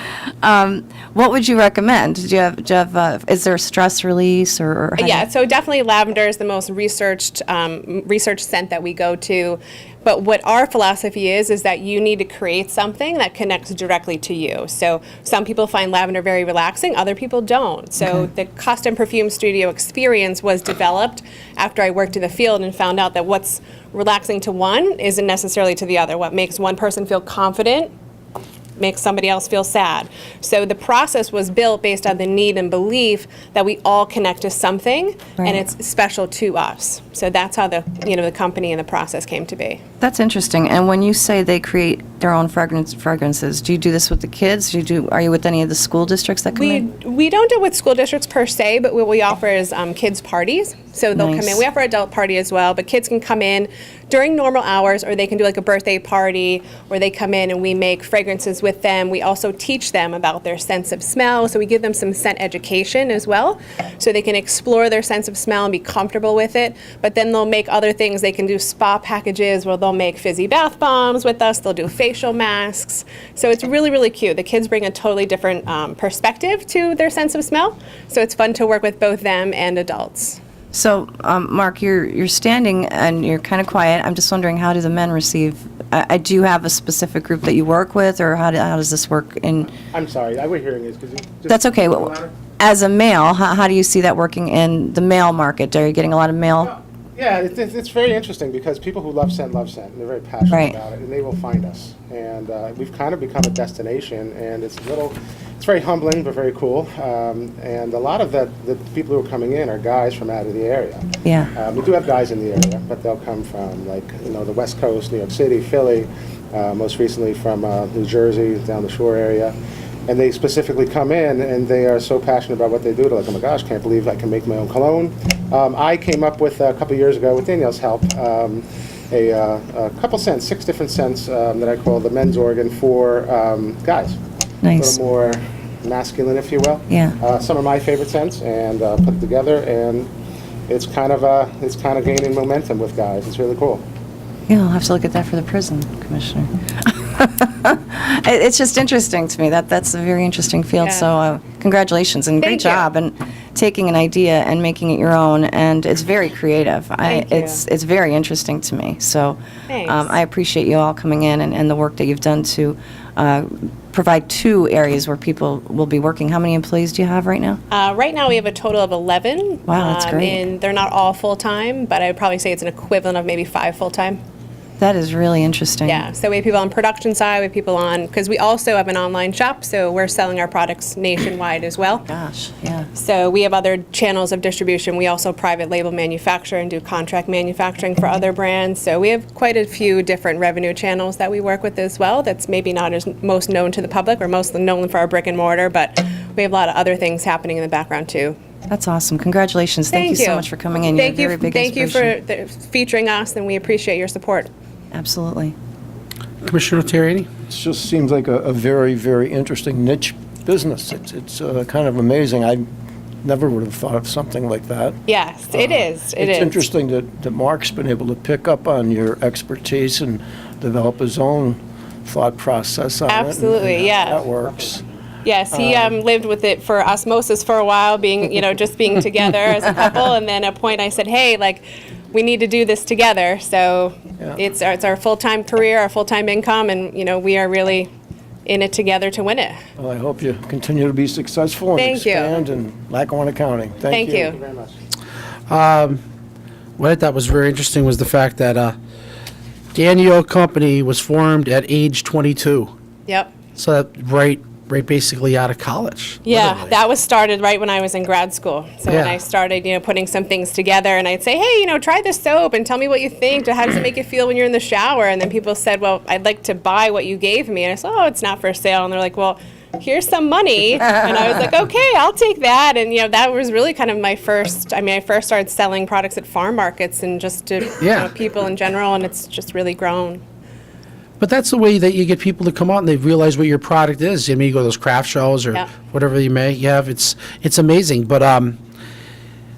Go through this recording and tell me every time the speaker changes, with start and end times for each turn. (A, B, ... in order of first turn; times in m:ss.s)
0:00.4-0:05.2 A
0:05.0-0:27.9 B
0:28.8-0:39.8 B
0:35.4-0:35.6 A
0:40.0-0:46.9 A
0:46.5-1:20.4 B
0:51.1-0:51.6 A
1:20.7-1:29.7 A
1:29.9-1:32.3 C
1:31.5-1:36.7 A
1:37.1-1:59.5 C
1:51.2-1:51.5 A
2:00.1-2:14.2 C
2:14.6-2:15.0 A
2:14.8-2:20.1 C
2:16.9-2:17.2 A
2:20.7-2:23.8 C
2:24.5-2:47.6 A
2:30.8-2:31.1 B
2:32.4-2:32.9 B
2:37.0-2:37.6 B
2:39.7-2:40.1 B
2:47.7-2:54.2 B
2:49.7-2:50.4 A
2:54.8-2:56.0 A
2:55.8-3:02.1 B
3:02.1-3:02.9 A
3:02.9-3:18.4 B
3:18.7-3:22.1 A
3:19.9-3:24.5 B
3:24.9-3:25.5 A
3:26.4-3:27.3 D
3:27.5-3:32.6 E
3:33.2-3:35.0 E
3:35.1-3:36.6 B
3:35.5-3:44.8 E
3:43.1-3:44.2 B
3:45.2-3:57.9 B
3:58.4-3:59.6 B
3:59.8-4:04.3 E
4:01.8-4:02.4 B
4:03.9-4:04.4 B
4:04.1-4:04.7 C
4:05.5-4:06.0 D
4:06.8-4:08.8 D
4:09.7-4:12.7 D
4:13.1-4:13.3 B
4:13.6-4:16.7 D
4:16.2-4:40.2 B
4:18.9-4:19.2 D
4:37.8-4:38.1 D
4:41.2-4:48.6 D